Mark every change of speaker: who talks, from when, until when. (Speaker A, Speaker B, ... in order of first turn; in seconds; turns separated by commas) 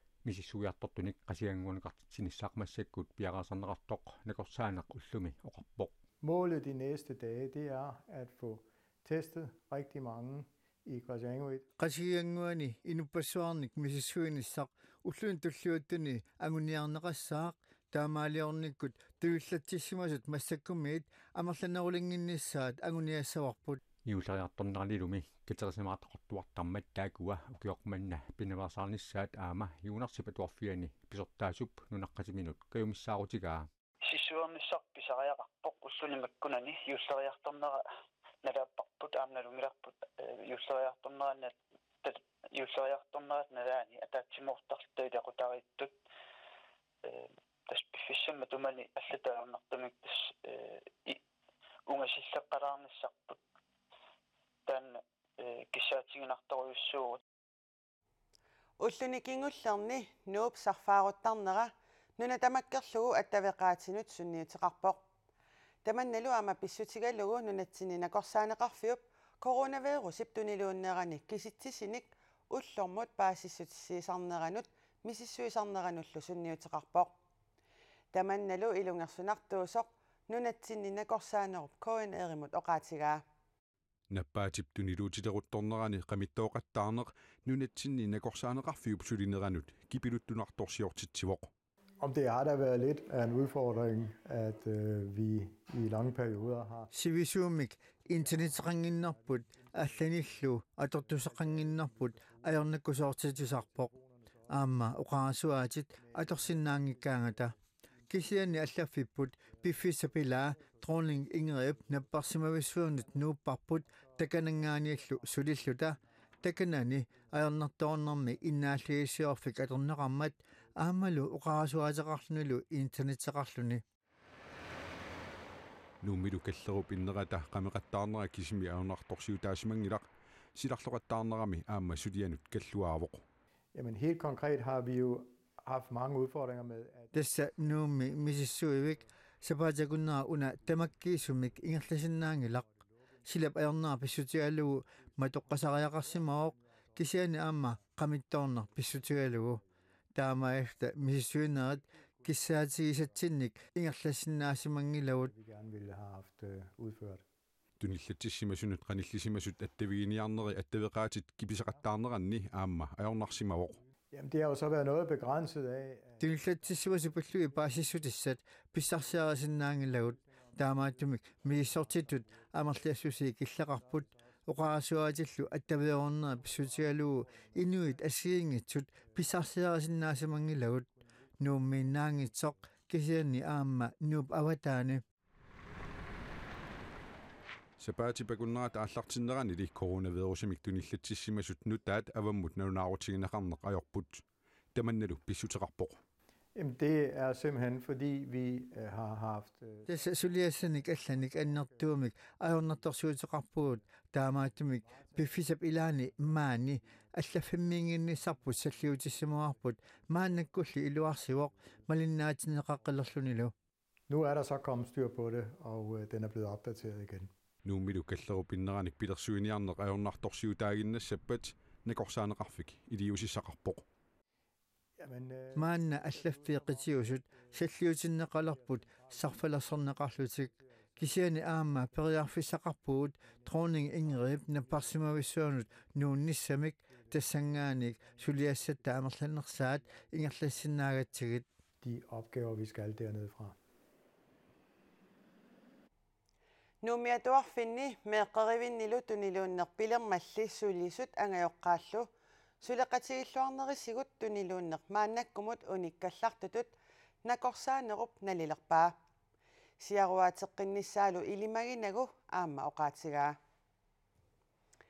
Speaker A: 0.2-5.9, Speaker B: 6.2-11.7, Speaker C: 11.8-23.8, Speaker A: 24.0-33.7, Speaker D: 34.0-37.8, Speaker D: 38.4-45.9, Speaker D: 47.0-51.2, Speaker D: 51.9-53.4, Speaker D: 54.7-57.2, Speaker E: 58.8-65.0, Speaker E: 65.8-77.1, Speaker E: 78.1-83.2, Speaker F: 84.1-91.5, Speaker B: 92.0-96.9, Speaker C: 96.9-103.9, Speaker C: 104.5-107.5, Speaker C: 108.1-123.8, Speaker F: 126.0-133.2, Speaker B: 133.8-137.1, Speaker C: 137.1-142.7, Speaker C: 143.3-149.6, Speaker C: 150.2-155.3, Speaker B: 155.2-157.2, Speaker F: 157.8-163.8, Speaker B: 164.1-166.2, Speaker C: 166.2-180.9, Speaker C: 181.4-185.0, Speaker F: 187.8-194.2, Speaker F: 194.8-196.0, Speaker B: 196.6-199.8, Speaker C: 199.9-213.5, Speaker B: 214.1-217.3, Speaker F: 217.6-223.8, Speaker B: 225.0-226.5, Speaker C: 225.6-241.4, Speaker B: 241.8-243.6, Speaker E: 246.8-252.1, Speaker E: 252.6-258.9, Speaker E: 259.8-263.4